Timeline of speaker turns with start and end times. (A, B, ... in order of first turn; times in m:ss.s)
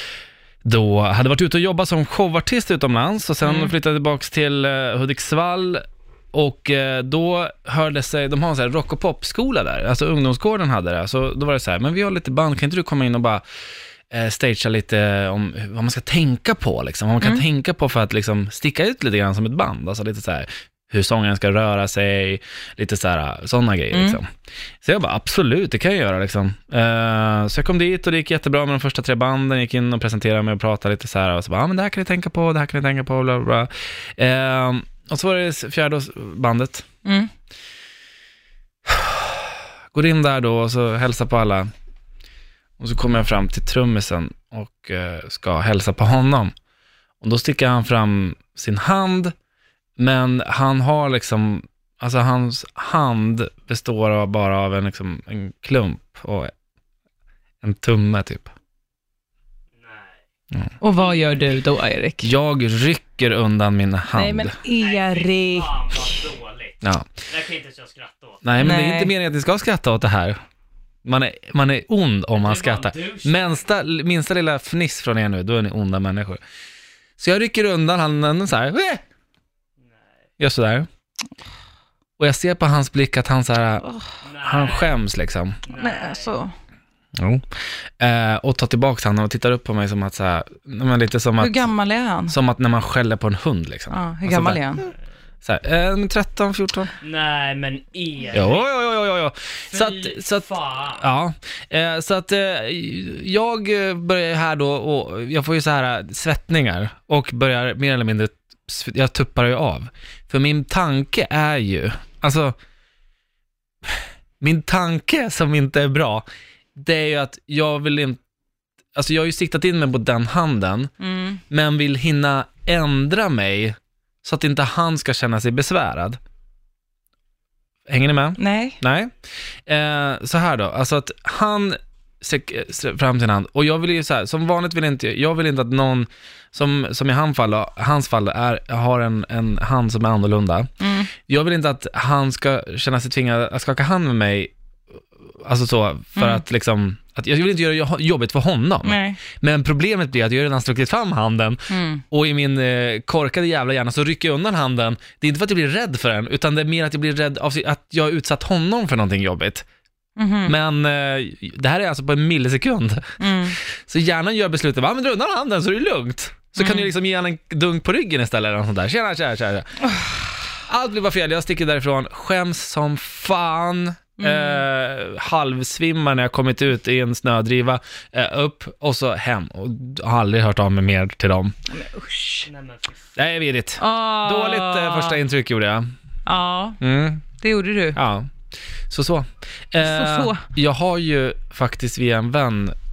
0:00.6-0:05.8 A
0:03.4-0:03.7 B
0:06.3-0:13.4 A
0:14.1-0:24.3 A
0:23.9-0:24.2 B
0:24.8-0:36.8 A
0:37.0-0:37.3 B
0:38.9-0:41.7 A
0:42.8-0:46.5 A
0:47.2-0:49.3 A
0:50.0-0:56.5 A
0:57.6-0:58.5 A
0:59.8-1:00.1 C
1:00.8-1:02.3 B
1:01.0-1:01.6 C
1:02.2-1:04.5 A
1:04.1-1:05.7 B
1:04.8-1:08.4 C
1:06.8-1:07.1 A
1:08.4-1:10.4 A
1:08.6-1:09.1 B
1:11.0-1:16.4 A
1:12.4-1:13.6 C
1:17.2-1:19.0 A
1:20.4-1:20.9 A
1:22.2-1:23.9 A
1:24.2-1:24.9 C
1:24.4-1:25.6 A
1:25.6-1:26.3 C
1:25.7-1:26.5 B
1:27.2-1:27.4 A
1:28.0-1:31.7 A
1:31.4-1:32.4 B
1:32.3-1:34.6 A
1:33.9-1:34.8 B
1:35.4-1:36.9 A
1:37.0-1:38.7 C
1:38.3-1:52.6 A
1:39.7-1:41.0 C
1:54.4-1:58.2 A
1:58.9-2:00.9 A
2:01.0-2:01.4 B
2:01.5-2:06.2 A
2:07.9-2:09.1 A
2:08.4-2:08.8 B
2:09.6-2:20.7 A
2:20.8-2:21.1 B
2:21.2-2:24.5 A
2:25.3-2:39.6 A
2:26.2-2:26.4 B
2:28.8-2:29.2 B
2:31.7-2:32.0 B
2:40.2-2:40.5 B
2:40.4-2:49.9 A
2:43.2-2:43.6 B
2:46.6-2:46.9 B
2:50.5-3:01.6 A
2:54.2-2:54.6 B
3:01.7-3:02.5 B
3:02.5-3:03.0 C
3:03.2-3:05.9 A
3:03.8-3:05.2 B
3:06.2-3:06.8 B
3:06.8-3:07.2 A
3:07.4-3:08.0 B
3:07.9-3:08.3 A
3:08.9-3:12.7 A
3:09.8-3:10.4 B